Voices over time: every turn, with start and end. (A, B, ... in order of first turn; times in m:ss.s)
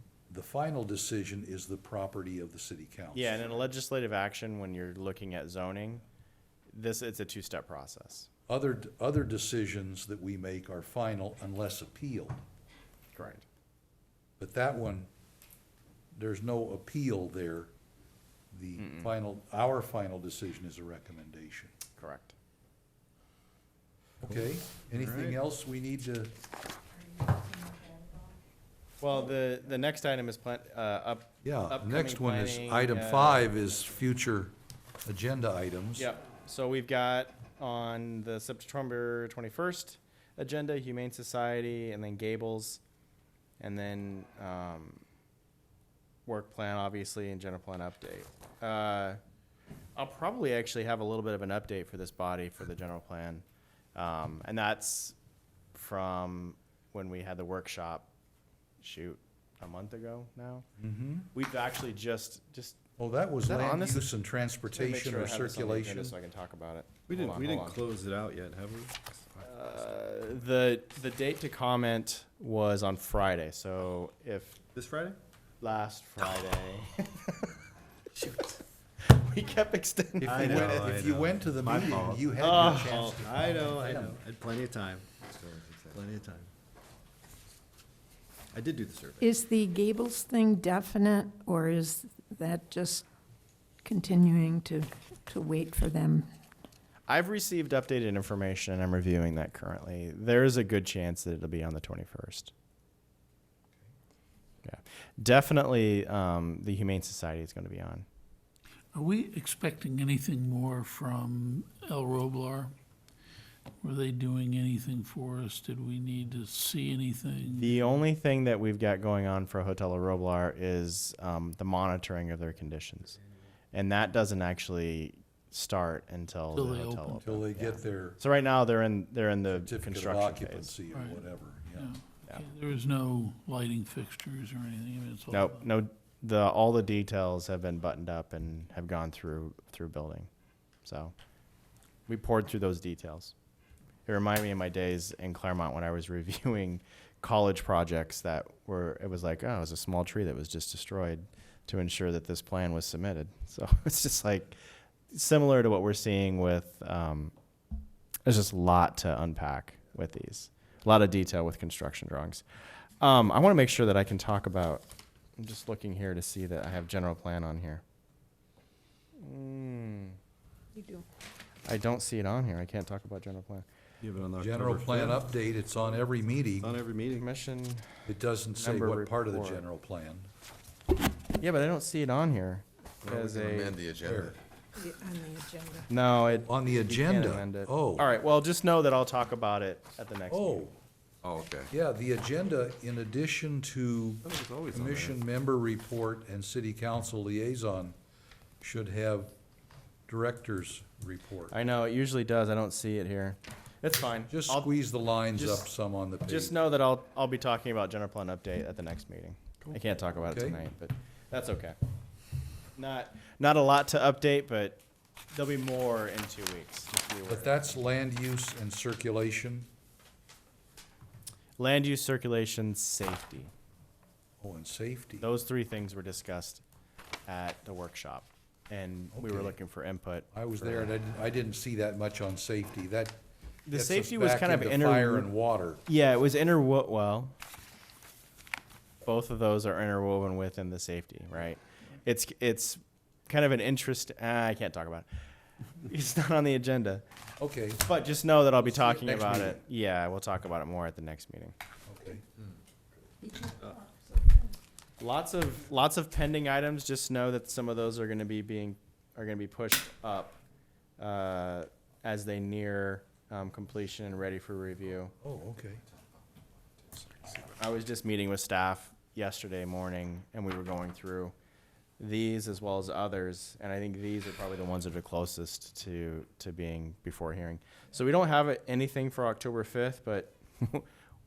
0:00.3-0:03.6 A
0:03.1-0:06.0 B
0:06.7-0:08.3 B
0:08.5-0:12.4 A
0:13.2-0:13.4 B
0:14.4-0:15.1 A
0:16.2-0:17.7 A
0:18.5-0:21.7 A
0:18.8-0:19.1 B
0:22.0-0:22.3 B
0:24.2-0:26.3 A
0:24.9-0:25.4 C
0:27.5-0:28.2 D
0:29.0-0:33.5 B
0:31.4-0:36.1 A
0:36.0-0:42.8 B
0:43.6-0:45.0 B
0:46.3-0:49.2 B
0:50.0-0:53.4 B
0:54.0-0:55.2 B
0:55.7-0:58.1 B
0:58.8-1:00.7 B
1:00.8-1:01.3 A
1:01.3-1:02.8 B
1:03.0-1:06.2 A
1:03.4-1:04.1 B
1:04.7-1:07.8 B
1:07.1-1:09.4 C
1:09.4-1:14.6 B
1:14.8-1:15.2 C
1:15.6-1:17.5 B
1:19.0-1:20.9 B
1:20.2-1:24.2 A
1:20.2-1:25.3 C
1:22.4-1:23.0 B
1:25.3-1:26.0 E
1:25.9-1:26.5 C
1:28.5-1:29.3 C
1:29.2-1:33.1 D
1:33.8-1:36.3 D
1:37.1-1:42.5 B
1:44.6-1:48.0 B
1:48.9-1:52.7 F
1:53.8-1:57.8 F
1:57.6-2:03.2 B
2:03.7-2:10.7 B
2:06.5-2:07.2 F
2:07.2-2:08.2 A
2:09.5-2:11.9 A
2:10.9-2:11.2 F
2:11.7-2:15.7 F
2:15.3-2:20.3 B
2:20.8-2:21.1 B
2:22.1-2:23.3 B
2:24.1-2:34.6 B
2:35.1-2:37.3 B
2:38.3-2:42.4 B
2:43.0-2:44.8 B
2:45.4-2:47.8 B
2:49.2-2:50.2 B
2:50.8-2:51.0 D
2:51.7-2:53.6 B
2:54.0-2:55.3 C
2:54.4-2:56.8 A
2:56.6-2:57.3 C
2:57.1-2:57.9 B
2:58.1-3:00.3 A
2:58.6-2:59.6 B
3:01.4-3:03.8 B
3:03.1-3:04.4 E
3:04.0-3:04.4 A
3:04.8-3:05.9 D
3:05.9-3:10.7 B
3:06.4-3:08.1 A
3:10.3-3:10.8 A
3:11.2-3:11.7 E
3:11.7-3:18.0 A
3:14.3-3:15.2 E
3:18.6-3:19.3 A
3:20.1-3:21.5 A
3:21.5-3:24.7 B
3:24.3-3:26.6 A
3:25.3-3:25.7 B
3:26.3-3:31.8 B
3:30.3-3:30.6 A
3:32.8-3:34.8 B
3:35.3-3:37.8 B
3:37.3-3:39.7 A
3:41.6-3:43.5 B
3:44.4-3:45.3 A
3:45.2-3:46.6 B
3:47.3-3:50.9 B
3:49.1-3:49.6 A
3:50.3-3:53.2 A
3:53.7-3:55.3 B
3:53.7-3:55.8 A
3:55.9-3:57.3 B
3:59.0-4:05.1 B
4:05.8-4:07.0 B
4:07.4-4:07.8 A
4:07.8-4:11.5 B
4:08.6-4:09.6 A
4:11.9-4:12.2 A
4:15.0-4:20.4 B
4:21.0-4:25.1 B
4:25.2-4:25.8 A
4:27.2-4:31.3 B
4:32.0-4:40.9 B